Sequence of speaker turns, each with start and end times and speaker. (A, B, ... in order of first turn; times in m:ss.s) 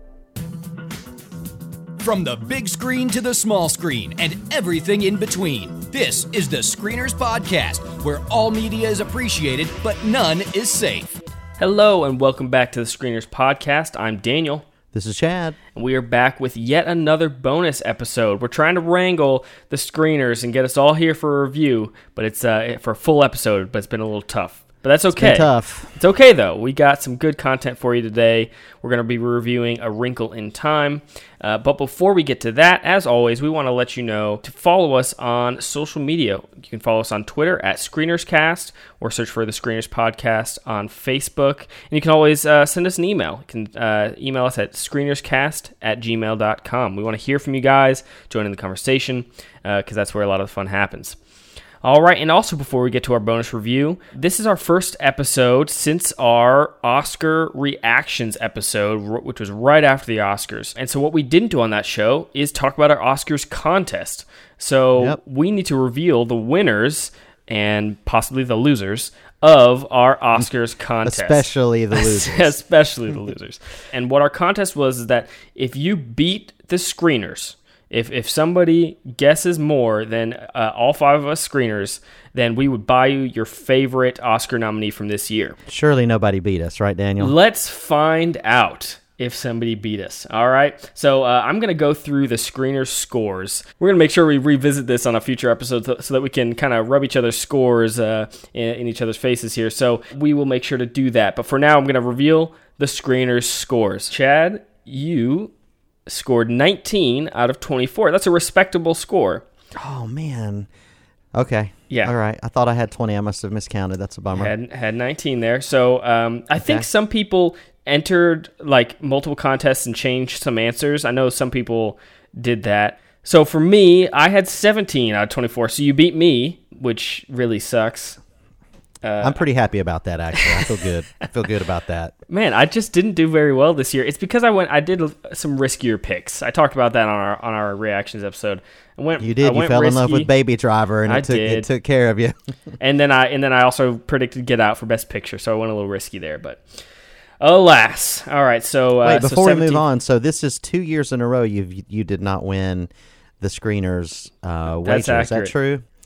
0:02.0-0:11.2 A
0:11.6-0:14.6 B
0:14.9-0:15.6 C
0:15.8-0:51.2 B
0:25.1-0:26.0 C
0:51.8-1:25.6 B
1:11.0-1:12.6 C
1:25.7-1:27.4 C
1:27.2-1:45.5 B
1:46.1-1:49.4 B
1:49.8-1:50.7 C
1:51.3-1:54.5 C
1:51.9-1:52.2 B
1:54.3-2:08.2 B
1:56.6-1:56.9 C
2:09.0-2:09.4 B
2:09.2-2:12.1 C
2:10.4-2:10.8 B
2:12.3-2:20.3 B
2:19.2-2:22.4 C
2:21.1-2:21.7 B
2:22.8-2:26.8 B
2:27.4-2:29.8 B
2:29.0-2:35.9 C
2:34.8-2:35.5 B